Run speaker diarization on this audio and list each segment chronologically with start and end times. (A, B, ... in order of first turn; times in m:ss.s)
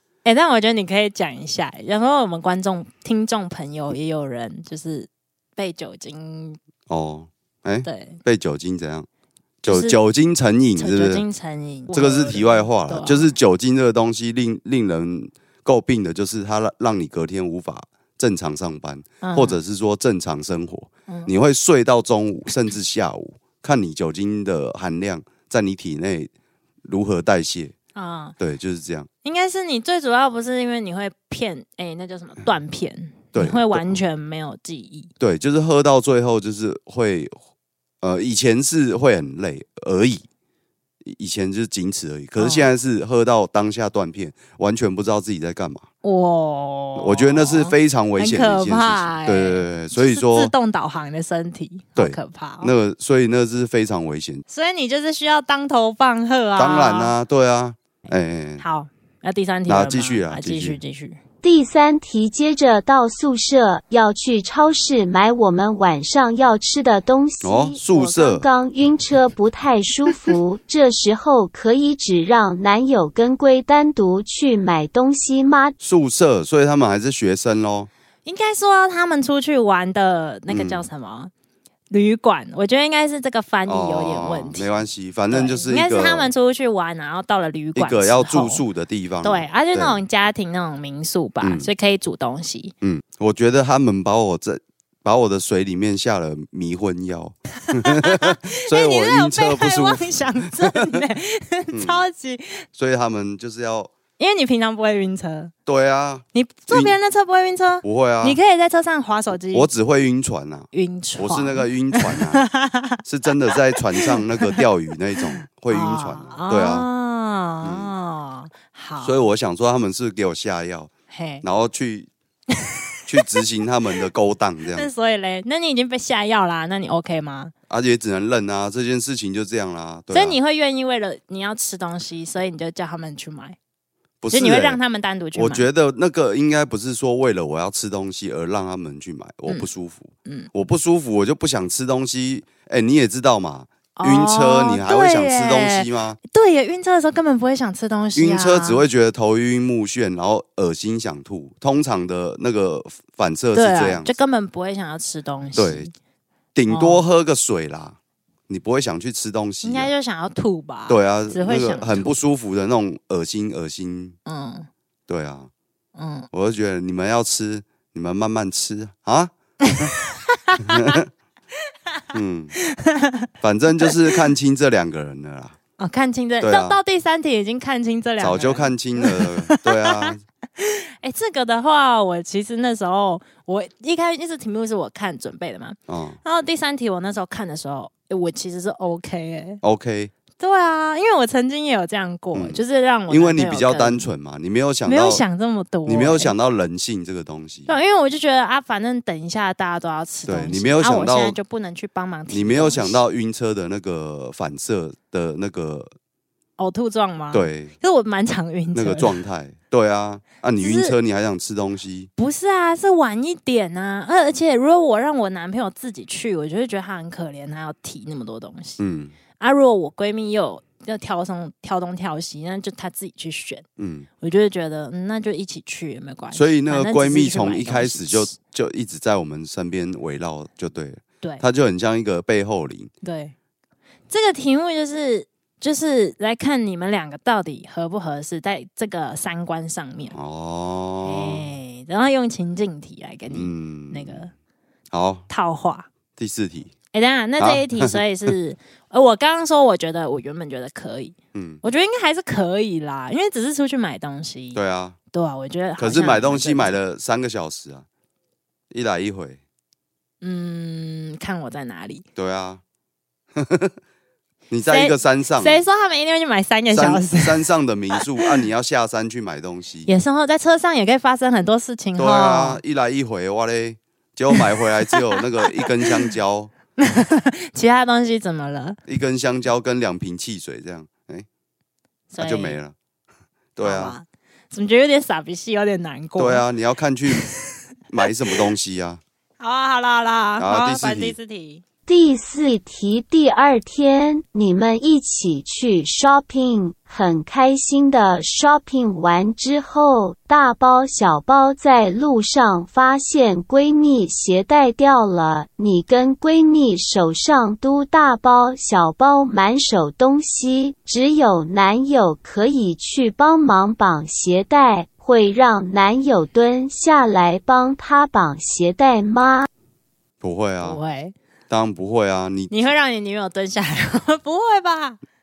0:00.2-0:06.6 A
0:06.9-0:09.1 B
0:07.8-0:08.2 A
0:09.6-0:11.2 B
0:09.7-0:10.0 A
0:10.8-0:13.3 A
0:11.9-0:26.3 B
0:19.2-0:19.6 A
0:21.1-0:21.3 A
0:26.8-0:27.7 B
0:28.0-0:28.4 A
0:28.4-0:29.1 B
0:29.2-0:35.1 A
0:33.3-0:34.0 B
0:35.2-0:37.4 B
0:38.0-0:40.2 B
0:41.0-0:45.8 B
0:42.4-0:42.7 A
0:46.0-0:52.7 A
0:47.0-0:50.5 B
0:52.0-0:54.4 B
0:54.5-0:57.1 A
0:56.6-0:58.6 B
0:58.6-1:01.2 A
0:59.7-1:00.8 B
1:01.4-1:15.8 C
1:07.4-1:08.4 B
1:15.8-1:17.9 B
1:18.2-1:21.3 A
1:20.5-1:20.9 B
1:21.9-1:24.6 A
1:23.7-1:26.3 B
1:25.3-1:28.6 A
1:27.8-1:30.0 B
1:29.2-1:32.7 A
1:31.4-1:31.7 B
1:32.8-1:41.0 B
1:37.7-1:42.6 A
1:41.7-1:42.0 B
1:42.8-1:43.9 B
1:44.2-1:45.5 A
1:45.6-1:47.0 B
1:46.3-1:49.7 A
1:47.8-1:48.4 B
1:49.5-1:52.4 B
1:50.7-1:53.0 A
1:53.0-1:56.9 B
1:53.5-1:54.6 A
1:55.2-1:59.2 A
1:57.6-1:57.9 B
1:59.0-2:00.9 B
2:01.1-2:01.4 A
2:01.4-2:02.1 B
2:02.6-2:03.2 A
2:03.1-2:04.9 B
2:04.7-2:07.5 A
2:07.7-2:10.4 B
2:10.1-2:13.6 A
2:14.2-2:14.8 B
2:14.3-2:15.7 A
2:15.3-2:26.2 B
2:20.2-2:20.5 A
2:24.0-2:28.8 A
2:28.2-2:34.2 B
2:33.5-2:35.9 A
2:35.6-2:35.9 B
2:36.5-2:38.0 B
2:36.7-2:37.0 A
2:38.5-2:39.9 B
2:39.6-2:42.1 A
2:40.9-2:44.2 B
2:44.2-2:44.7 A
2:45.1-2:45.5 B
2:46.0-2:46.3 A
2:46.3-2:49.9 B
2:49.6-2:51.0 A
2:50.6-2:51.1 B
2:52.1-2:52.5 B
2:52.5-2:53.3 A
2:53.4-2:55.6 B
2:53.8-2:54.2 A
2:55.8-3:09.6 A
2:56.4-2:56.8 B
2:58.2-3:00.2 B
3:05.9-3:06.2 B
3:09.6-3:10.1 B
3:10.4-3:14.1 A
3:12.3-3:15.2 B
3:14.8-3:16.3 A
3:15.8-3:17.7 B
3:17.7-3:23.0 A
3:20.2-3:21.4 B
3:22.3-3:25.9 B
3:26.6-3:29.2 A
3:27.3-3:27.7 B
3:28.7-3:32.1 B
3:30.6-3:31.0 A
3:32.2-3:38.8 A
3:38.8-3:39.2 B
3:39.4-3:43.6 A
3:43.8-3:44.1 B
3:44.2-3:48.3 A
3:46.3-3:52.9 B
3:53.0-3:53.3 A
3:54.1-4:00.1 A
4:00.1-4:01.4 B
4:01.0-4:04.3 A
4:03.3-4:04.3 B
4:04.9-4:05.2 B
4:05.3-4:05.9 A
4:06.2-4:06.7 B
4:06.9-4:14.6 A
4:07.4-4:08.3 B
4:11.3-4:11.6 B
4:14.5-4:15.0 B
4:15.1-4:16.8 A
4:15.8-4:17.8 B
4:18.7-4:19.4 B
4:20.2-4:22.0 A
4:22.2-4:22.6 B
4:23.3-4:23.7 B
4:24.5-4:25.6 B
4:24.7-4:28.4 A
4:26.7-4:29.9 B
4:29.8-4:32.6 A
4:32.0-4:36.5 B
4:34.3-4:36.0 A
4:36.8-4:38.8 A
4:38.8-4:41.3 B
4:42.1-4:42.6 A
4:42.2-4:42.7 B
4:43.6-4:44.0 B
4:43.6-4:46.4 A
4:46.2-4:47.3 B
4:47.1-4:47.4 A
4:47.9-4:49.0 B
4:49.4-4:51.6 A
4:50.4-4:51.2 B
4:51.9-5:19.5 C
5:20.2-5:20.8 B
5:20.6-5:21.1 A
5:21.5-5:22.7 B
5:22.5-5:25.0 A